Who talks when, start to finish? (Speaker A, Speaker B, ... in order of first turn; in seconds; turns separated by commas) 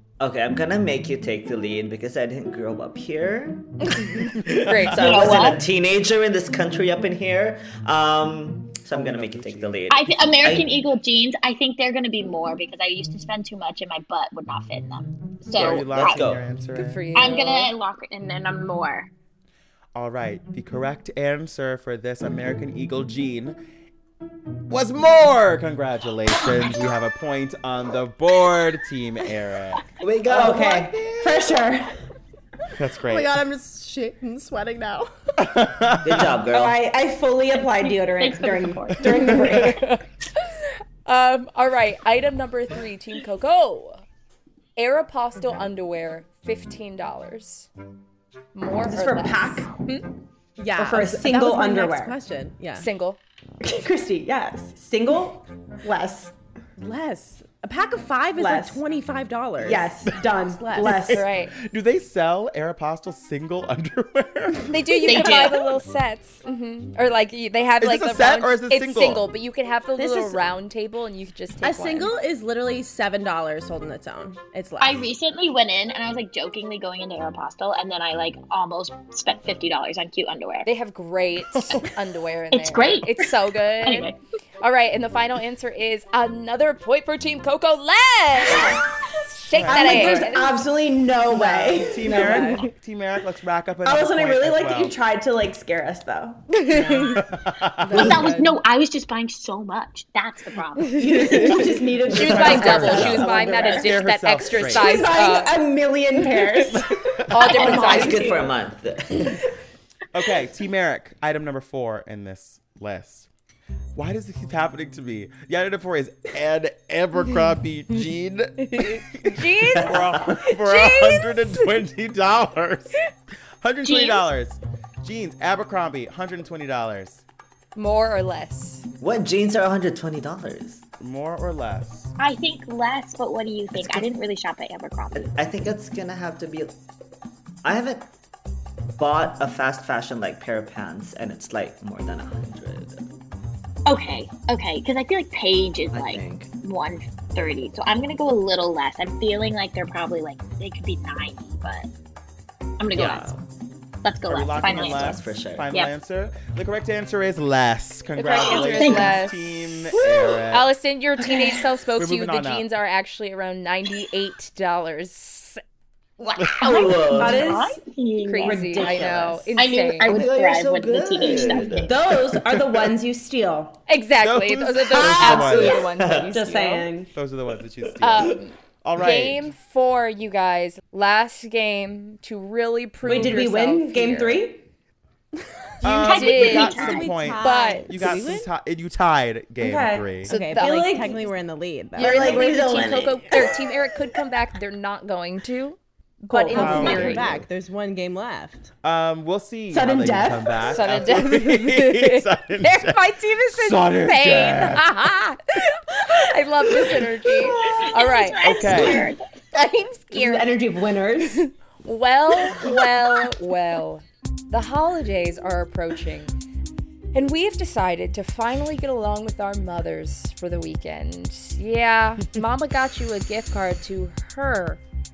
Speaker A: 0.2-10.7, Speaker B: 4.5-5.3, Speaker C: 4.7-4.9, Speaker D: 5.0-5.6, Speaker C: 8.9-9.8, Speaker D: 9.9-16.3, Speaker A: 15.5-16.4, Speaker C: 15.6-17.1, Speaker B: 16.7-17.7, Speaker D: 17.1-19.1, Speaker C: 19.9-23.6, Speaker C: 24.7-29.9, Speaker A: 30.0-31.7, Speaker E: 30.3-31.9, Speaker C: 32.8-33.4, Speaker F: 33.0-35.1, Speaker C: 35.4-36.4, Speaker A: 36.0-36.8, Speaker E: 36.5-39.9, Speaker D: 37.6-39.4, Speaker B: 39.5-40.0, Speaker B: 41.1-44.0, Speaker B: 44.8-47.7, Speaker B: 48.5-50.1, Speaker E: 48.8-49.7, Speaker F: 50.6-52.9, Speaker E: 50.8-52.2, Speaker B: 52.8-53.2, Speaker E: 53.6-56.3, Speaker F: 56.8-61.0, Speaker E: 58.4-58.8, Speaker E: 59.6-61.3, Speaker C: 60.8-65.4, Speaker B: 61.1-61.5, Speaker B: 64.7-72.1, Speaker D: 65.1-65.8, Speaker C: 67.8-69.3, Speaker F: 70.0-70.4, Speaker F: 71.6-75.1, Speaker D: 74.8-80.7, Speaker B: 80.7-84.1, Speaker C: 81.6-81.9, Speaker D: 82.5-84.2, Speaker B: 84.6-90.6, Speaker C: 89.5-90.3, Speaker E: 89.7-92.6, Speaker F: 91.3-92.5, Speaker C: 91.8-95.0, Speaker E: 93.8-96.7, Speaker F: 96.7-97.2, Speaker C: 97.2-98.3, Speaker F: 97.8-98.6, Speaker D: 97.9-101.6, Speaker E: 101.0-103.9, Speaker B: 102.1-105.5, Speaker C: 102.1-105.1, Speaker A: 102.3-103.1, Speaker E: 104.6-108.5, Speaker C: 106.6-106.9, Speaker B: 107.3-108.4, Speaker A: 107.4-109.4, Speaker C: 110.1-113.3, Speaker C: 114.0-123.0, Speaker B: 118.6-121.6, Speaker A: 119.8-120.2, Speaker C: 123.6-127.2, Speaker D: 123.8-124.2, Speaker B: 127.8-128.9, Speaker A: 129.0-130.8, Speaker C: 131.0-132.1, Speaker D: 132.2-135.4, Speaker A: 133.8-134.1, Speaker A: 135.2-136.7, Speaker A: 137.6-138.1, Speaker A: 139.0-143.1, Speaker D: 143.9-151.9, Speaker A: 145.9-146.5, Speaker D: 152.8-153.3, Speaker A: 152.9-153.4, Speaker D: 154.0-155.9, Speaker C: 154.3-160.7, Speaker A: 154.6-155.7, Speaker B: 158.2-159.4, Speaker D: 158.4-159.3, Speaker B: 160.5-165.6, Speaker C: 162.0-162.7, Speaker A: 166.2-167.6, Speaker D: 166.6-169.0, Speaker E: 167.0-167.8, Speaker B: 168.2-170.2, Speaker E: 168.4-169.5, Speaker D: 169.6-172.0, Speaker A: 170.0-172.4, Speaker E: 171.8-173.8, Speaker B: 173.9-176.9, Speaker C: 174.2-175.9, Speaker A: 175.0-176.3, Speaker E: 175.2-175.7, Speaker E: 176.2-177.1, Speaker C: 177.1-179.5, Speaker B: 178.0-184.5, Speaker E: 183.0-184.7, Speaker C: 185.8-190.3, Speaker F: 185.8-188.5, Speaker D: 186.0-187.2, Speaker B: 186.1-188.2, Speaker E: 189.6-191.2, Speaker B: 190.3-191.2, Speaker F: 190.3-193.2, Speaker B: 192.0-197.4, Speaker E: 192.0-193.2, Speaker F: 196.3-198.7, Speaker C: 196.5-197.4, Speaker E: 196.6-197.1, Speaker C: 198.8-204.8, Speaker E: 199.7-200.7, Speaker B: 200.7-208.8, Speaker D: 207.6-209.3, Speaker C: 208.4-209.1, Speaker B: 209.5-210.6, Speaker E: 210.1-211.4, Speaker B: 211.8-216.3, Speaker B: 217.1-224.8